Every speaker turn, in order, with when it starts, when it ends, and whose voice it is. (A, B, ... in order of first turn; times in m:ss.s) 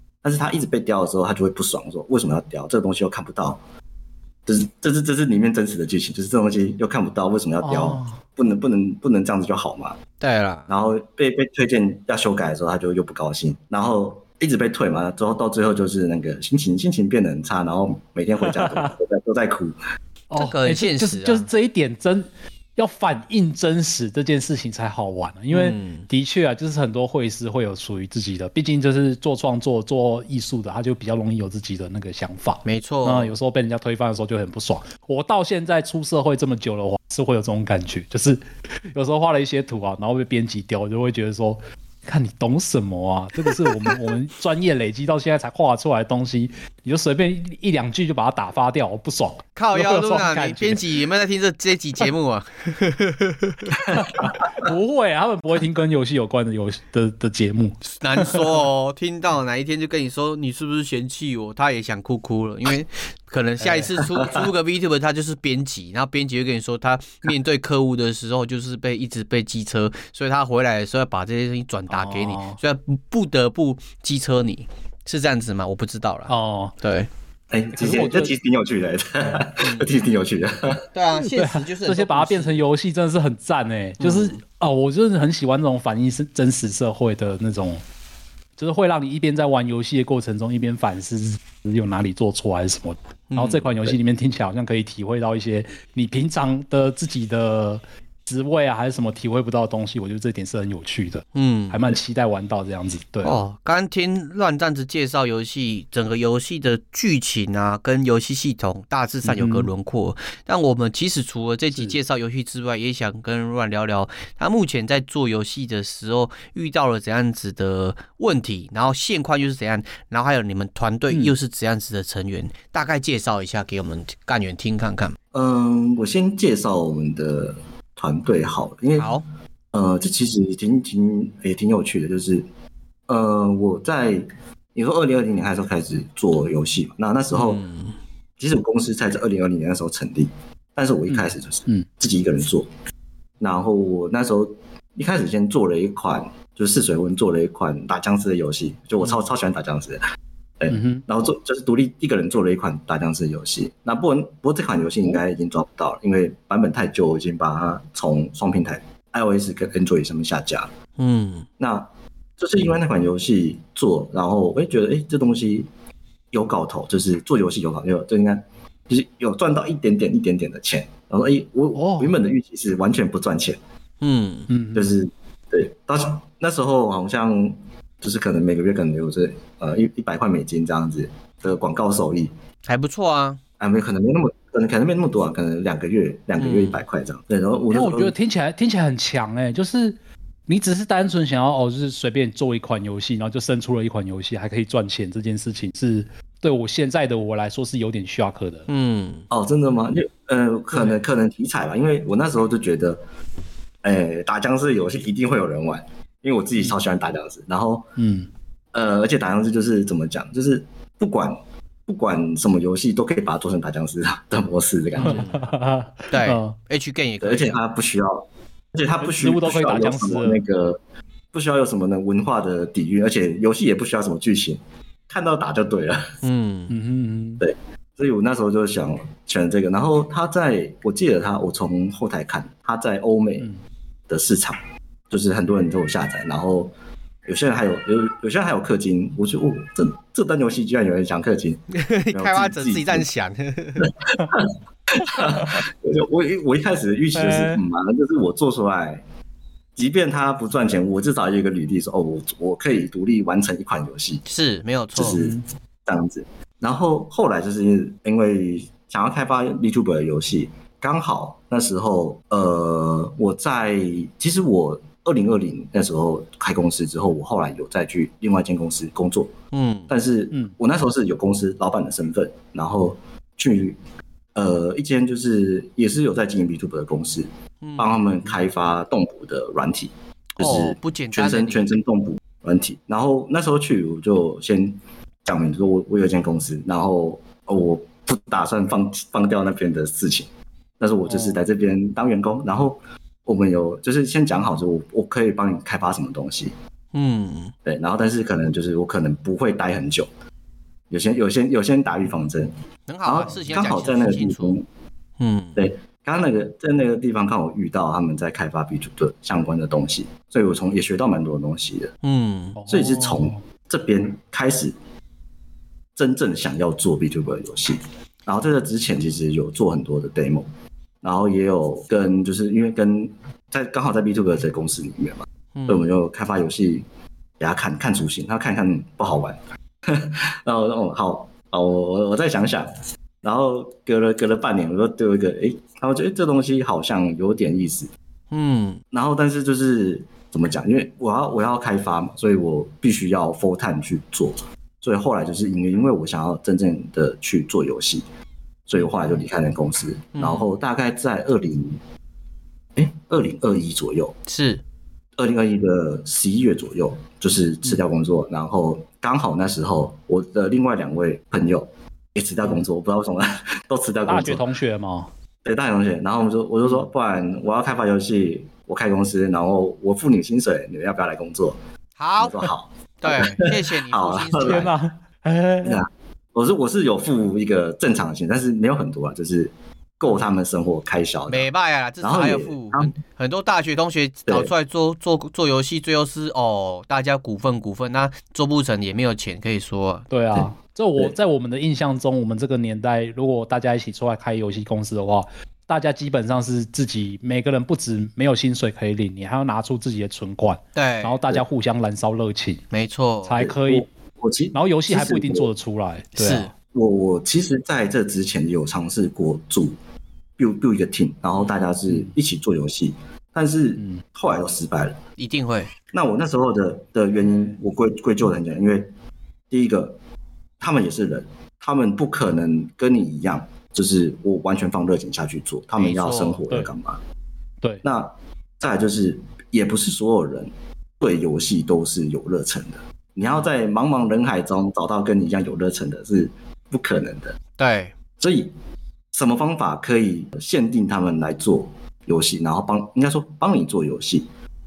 0:00.2-0:03.6 A
0:04.5-0:10.0 A
0:07.6-0:08.2 B
0:10.2-0:10.7 C
0:10.7-0:19.8 A
0:18.5-0:18.9 B
0:20.3-0:38.4 B
0:20.4-0:21.5 C
0:25.5-0:26.1 C
0:32.6-0:33.3 C
0:38.9-0:50.9 B
0:49.6-0:53.8 C
0:53.9-0:58.4 B
0:58.0-1:17.1 C
1:03.6-1:03.9 B
1:04.0-1:04.5 A
1:11.9-1:12.6 B
1:16.3-1:16.8 B
1:17.5-1:20.8 A
1:17.8-1:18.3 B
1:19.6-1:19.9 C
1:20.9-1:22.6 C
1:21.2-1:27.8 B
1:24.0-1:24.4 C
1:28.6-1:43.4 B
1:33.3-1:33.9 C
1:41.4-1:42.0 C
1:43.2-2:05.2 C
1:49.2-1:49.7 B
2:05.3-2:09.1 A
2:09.0-2:09.2 C
2:09.7-2:12.4 A
2:13.1-2:17.6 A
2:17.3-2:18.0 C
2:18.4-2:22.7 A
2:21.1-2:21.9 B
2:23.4-2:30.0 A
2:30.6-2:40.7 A
2:30.7-2:31.0 B
2:41.0-2:41.5 C
2:41.6-2:41.9 A
2:42.4-2:45.7 A
2:46.3-2:53.6 A
2:51.8-2:52.2 B
2:54.0-2:54.5 C
2:54.5-2:54.9 B
2:54.7-3:02.3 A
3:02.6-3:03.4 C
3:03.6-3:08.1 A
3:06.4-3:06.8 C
3:07.7-3:10.0 B
3:10.5-3:18.7 B
3:18.7-3:19.2 C
3:19.3-3:23.0 A
3:20.7-3:21.0 B
3:23.8-3:27.9 A
3:28.0-3:28.3 B
3:28.7-3:35.3 A
3:35.0-3:35.4 C
3:35.0-3:36.6 B
3:36.1-3:37.6 C
3:37.2-3:40.8 A
3:39.0-3:40.4 B
3:41.3-3:46.1 A
3:46.2-3:46.7 C
3:46.7-3:47.4 B
3:47.4-3:53.5 A
3:54.1-3:54.6 A
3:55.1-3:56.7 A
3:57.3-4:03.1 A
4:01.8-4:03.9 C
4:03.8-4:09.0 A
4:07.2-4:07.6 B
4:09.8-4:14.2 A
4:14.3-4:15.2 C
4:15.0-4:29.3 A
4:29.5-4:29.9 C
4:29.9-4:33.8 A
4:34.4-4:50.3 A
4:37.6-4:37.9 C
4:40.4-4:41.7 C
4:50.8-4:56.5 A
4:51.1-4:51.4 B
4:56.9-4:57.5 C
4:57.7-5:00.1 A
5:00.9-5:02.5 A
5:02.9-5:04.6 C
5:03.0-5:04.6 A
5:05.2-5:05.6 C
5:05.6-5:11.9 A
5:12.0-5:12.6 C
5:12.6-5:13.4 B
5:12.7-5:14.8 A
5:16.0-5:20.5 A
5:21.0-5:26.8 A
5:25.6-5:25.9 C
5:27.4-5:32.7 A
5:33.2-5:37.9 A
5:38.3-5:38.8 C
5:38.9-5:48.0 A
5:48.7-5:51.8 A
5:50.2-5:50.5 C
5:52.8-5:54.2 A
5:54.3-5:54.6 C
5:55.2-6:04.4 A
6:04.1-6:05.1 B
6:05.4-6:11.6 A
6:12.0-6:12.5 C
6:12.2-6:14.7 A
6:13.0-6:14.7 C
6:14.4-6:15.8 B
6:15.6-6:21.5 A
6:21.3-6:30.1 C
6:22.0-6:22.9 A
6:24.3-6:24.5 A
6:30.1-6:42.6 B
6:40.8-6:41.3 C
6:42.7-6:43.4 C
6:43.3-6:43.8 B
6:43.4-6:45.5 A
6:44.5-6:46.5 B
6:46.2-6:46.5 C
6:46.7-6:49.8 A
6:50.4-6:55.0 A
6:55.2-6:55.7 C
6:55.9-6:58.9 A
6:59.5-7:00.0 A
7:00.6-7:07.0 A
7:05.8-7:06.4 C
7:07.8-7:17.4 A
7:17.6-7:17.9 C
7:18.2-7:18.5 A
7:19.1-7:24.3 A